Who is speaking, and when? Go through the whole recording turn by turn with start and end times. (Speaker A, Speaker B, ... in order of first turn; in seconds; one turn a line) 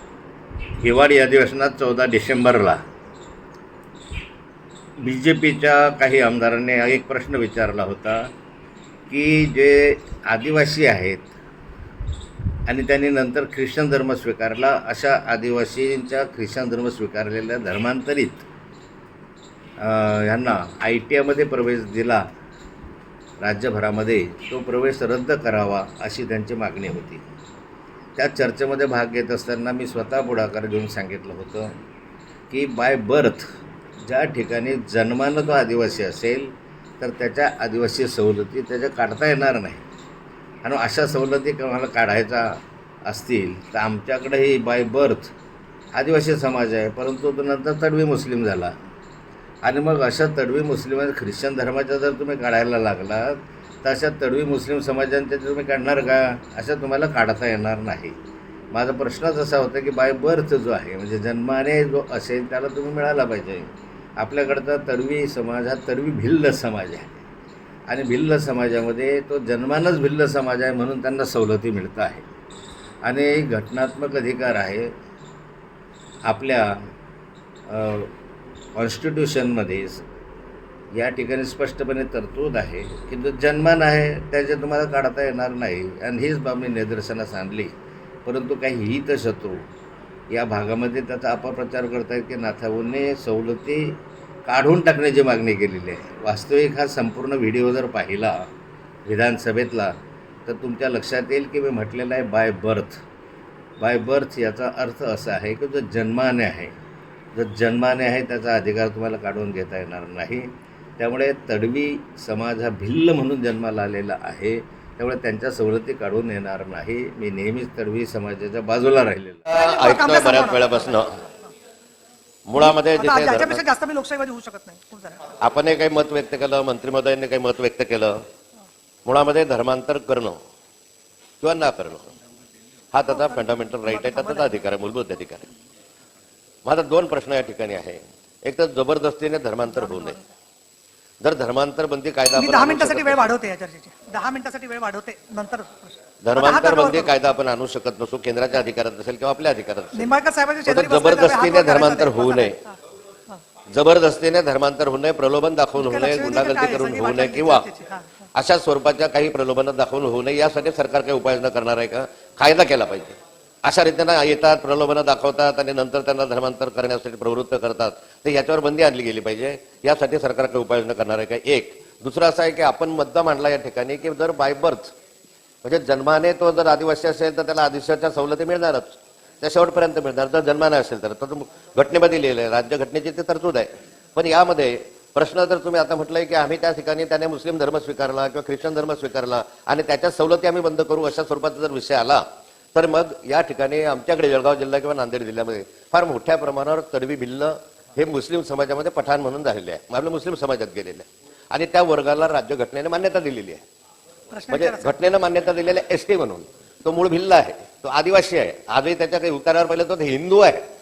Speaker A: 0.8-2.8
Speaker A: 5.0-8.3
Speaker A: 9.1-11.3
Speaker A: 12.7-18.5
Speaker A: 19.8-22.2
Speaker A: 23.4-27.2
Speaker A: 28.2-31.7
Speaker A: 32.5-33.5
Speaker A: 34.1-39.8
Speaker A: 40.6-45.3
Speaker A: 46.0-48.8
Speaker A: 49.6-58.1
Speaker A: 58.7-67.2
Speaker A: 67.9-72.2
Speaker A: 73.0-74.9
Speaker A: 76.3-76.8
Speaker A: 77.7-78.1
Speaker A: 78.8-80.0
Speaker A: 80.9-87.7
Speaker A: 88.2-89.6
Speaker A: 90.3-98.5
Speaker A: 99.1-99.9
Speaker A: 100.5-103.0
Speaker A: 103.8-106.8
Speaker A: 107.3-119.5
Speaker B: 119.5-121.2
Speaker C: 119.5-121.5
Speaker B: 122.5-123.6
Speaker C: 122.6-125.2
Speaker B: 125.4-128.2
Speaker B: 129.1-130.4
Speaker B: 131.4-132.1
Speaker B: 132.9-135.5
Speaker C: 133.1-134.6
Speaker B: 136.7-140.2
Speaker C: 139.7-140.3
Speaker B: 141.2-143.3
Speaker C: 142.3-147.1
Speaker B: 146.2-152.6
Speaker C: 149.9-152.7
Speaker B: 153.7-157.7
Speaker C: 155.8-158.2
Speaker B: 158.4-174.9
Speaker B: 175.6-192.2
Speaker B: 192.8-203.6
Speaker C: 204.3-205.0
Speaker B: 204.5-210.6